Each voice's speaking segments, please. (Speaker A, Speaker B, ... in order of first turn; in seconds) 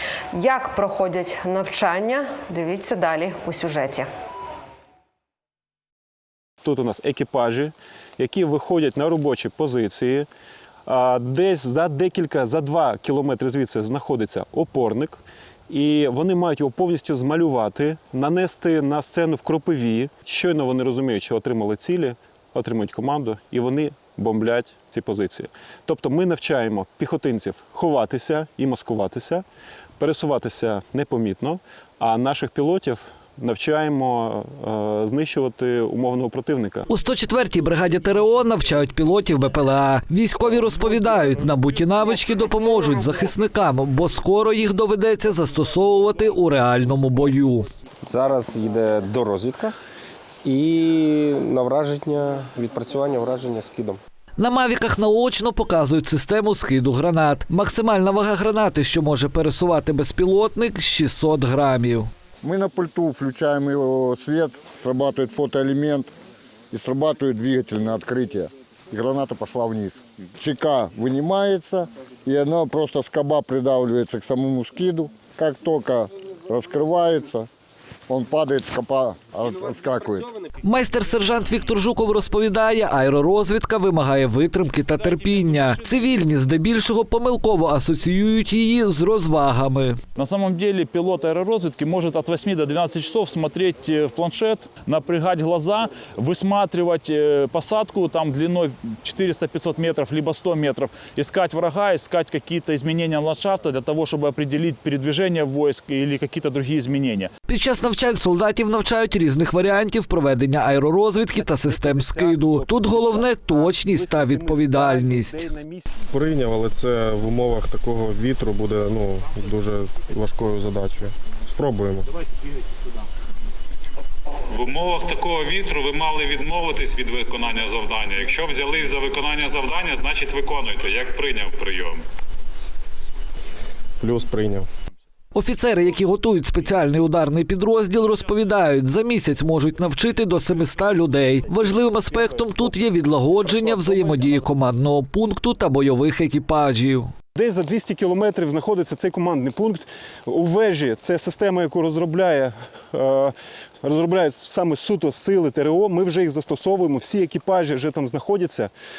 Speaker A: 0.3-4.1
Speaker B: 6.6-10.3, 10.8-29.4, 30.0-36.8, 111.4-116.0, 147.3-158.7
Speaker C: 36.9-47.7, 54.4-62.1, 80.6-90.0, 107.5-115.5, 135.3-147.1
Speaker D: 48.0-49.8, 50.4-54.0, 79.4-80.5
Speaker E: 62.4-66.1, 66.7-77.5, 78.1-80.3
Speaker F: 85.1-86.0, 90.2-107.3, 143.8-144.0
Speaker G: 116.1-122.1, 134.0-134.7
Speaker H: 124.5-132.0